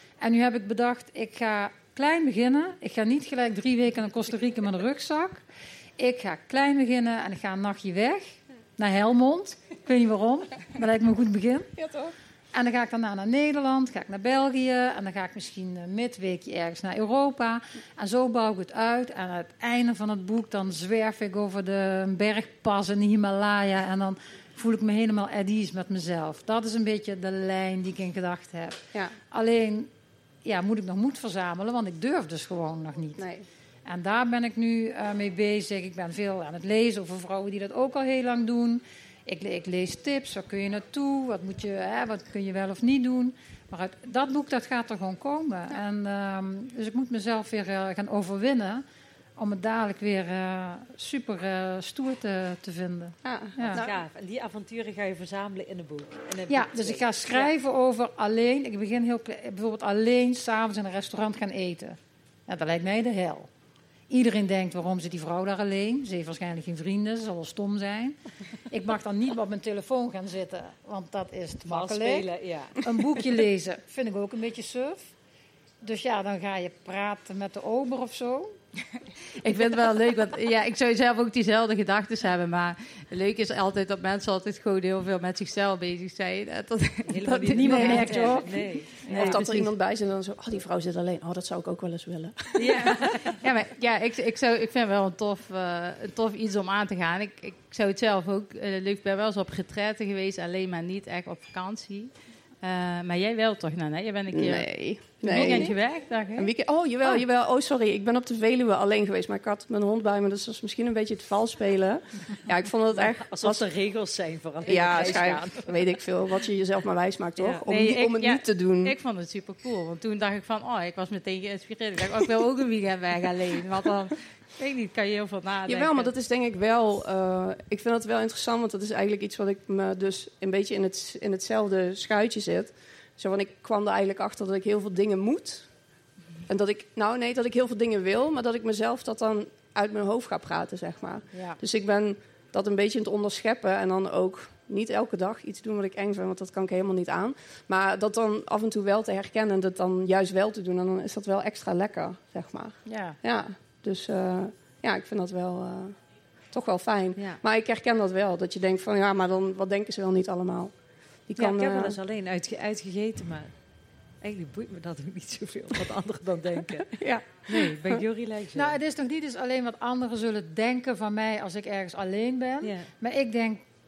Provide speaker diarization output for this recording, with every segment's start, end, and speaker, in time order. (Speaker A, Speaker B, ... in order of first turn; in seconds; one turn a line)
Speaker A: 0.2-5.4
Speaker A: 6.0-11.7
Speaker B: 11.8-12.1
Speaker A: 12.5-28.8
Speaker A: 29.3-29.9
Speaker A: 30.4-33.2
Speaker B: 33.2-33.4
Speaker A: 33.8-48.8
Speaker A: 49.4-53.8
Speaker B: 53.2-53.9
Speaker C: 53.7-57.5
Speaker A: 56.5-63.5
Speaker A: 64.1-68.2
Speaker A: 68.7-75.1
Speaker C: 71.7-72.8
Speaker A: 75.8-78.5
Speaker D: 79.4-88.4
Speaker C: 87.1-89.4
Speaker A: 87.5-89.4
Speaker D: 89.1-89.7
Speaker B: 89.1-92.9
Speaker C: 92.5-93.3
Speaker D: 92.8-102.1
Speaker D: 102.6-106.5
Speaker B: 104.3-105.7
Speaker B: 106.4-113.6
Speaker C: 112.9-115.8
Speaker B: 114.7-118.9
Speaker C: 117.4-117.6
Speaker D: 117.7-126.1
Speaker B: 125.7-135.7
Speaker B: 136.5-156.0
Speaker A: 141.3-141.6
Speaker A: 152.8-153.2
Speaker B: 156.5-160.7
Speaker B: 161.3-162.0
Speaker C: 161.4-163.5
Speaker C: 164.2-166.9
Speaker B: 166.9-168.0
Speaker C: 167.5-168.8
Speaker A: 168.5-173.6
Speaker C: 172.6-172.9